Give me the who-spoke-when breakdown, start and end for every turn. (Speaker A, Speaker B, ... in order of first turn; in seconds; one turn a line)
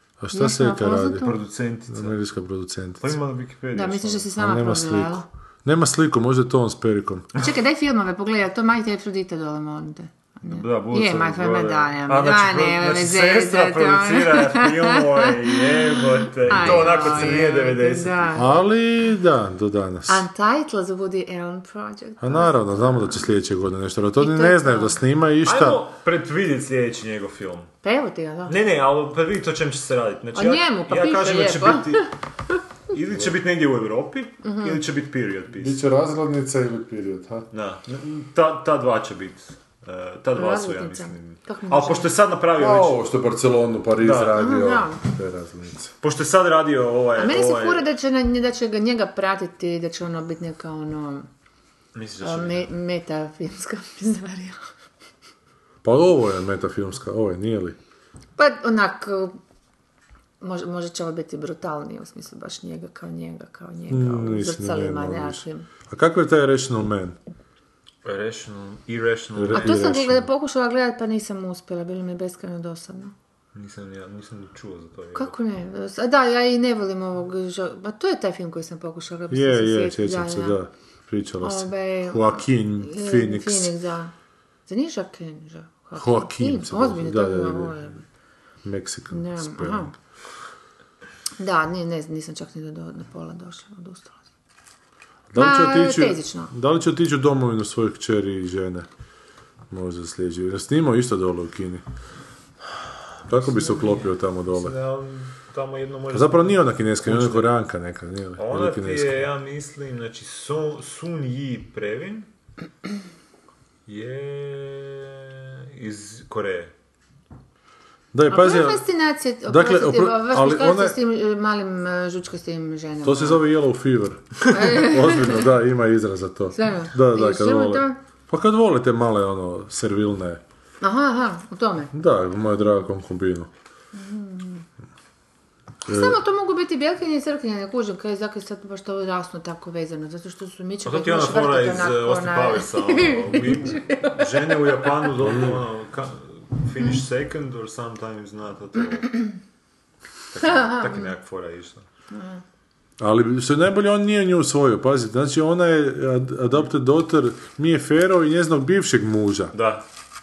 Speaker A: 0.2-1.3
Speaker B: 0.3-1.4
Speaker C: 1.1-2.2
Speaker A: 1.9-3.2
Speaker C: 3.0-4.3
Speaker B: 3.7-5.2
Speaker A: 4.3-7.3
Speaker B: 7.3-18.5
Speaker C: 10.4-18.4
Speaker A: 16.5-17.4
Speaker A: 18.3-20.2
Speaker B: 20.1-23.2
Speaker A: 22.2-25.8
Speaker B: 24.2-25.0
Speaker C: 25.4-27.7
Speaker B: 27.8-28.6
Speaker C: 28.5-32.1
Speaker B: 30.3-32.6
Speaker C: 32.9-35.8
Speaker B: 34.4-34.8
Speaker A: 35.5-37.5
Speaker C: 37.5-43.0
Speaker B: 40.4-42.1
Speaker A: 42.5-45.9
Speaker C: 44.0-44.4
Speaker B: 44.4-45.0
Speaker C: 46.0-47.9
Speaker B: 47.2-51.3
Speaker C: 51.9-52.7
Speaker B: 52.2-54.6
Speaker A: 55.8-57.8
Speaker B: 58.4-59.4
Speaker B: 60.4-65.7
Speaker A: 63.9-67.2
Speaker C: 68.0-70.0
Speaker A: 69.3-70.3
Speaker B: 69.5-73.1
Speaker C: 73.5-75.3
Speaker B: 75.2-80.6
Speaker A: 79.3-83.8
Speaker B: 81.4-84.1
Speaker B: 84.7-88.0
Speaker A: 86.0-87.8
Speaker A: 88.6-89.9
Speaker B: 89.1-89.9
Speaker B: 91.4-94.2
Speaker A: 95.3-98.9
Speaker B: 95.3-96.5
Speaker A: 99.7-101.8
Speaker A: 103.3-104.7
Speaker C: 104.5-107.5
Speaker A: 106.1-109.2
Speaker C: 108.4-112.3
Speaker C: 113.9-116.7
Speaker A: 118.1-118.8
Speaker B: 118.3-123.4
Speaker A: 119.5-121.0
Speaker A: 123.0-130.4
Speaker B: 124.5-125.5
Speaker B: 126.5-128.0
Speaker B: 130.8-131.9
Speaker A: 131.9-133.5
Speaker B: 133.9-134.6
Speaker A: 135.9-136.2
Speaker B: 135.9-144.9
Speaker C: 140.8-149.2
Speaker A: 145.2-145.6
Speaker C: 150.3-151.8
Speaker B: 152.1-152.4
Speaker A: 153.0-159.5
Speaker C: 159.5-159.8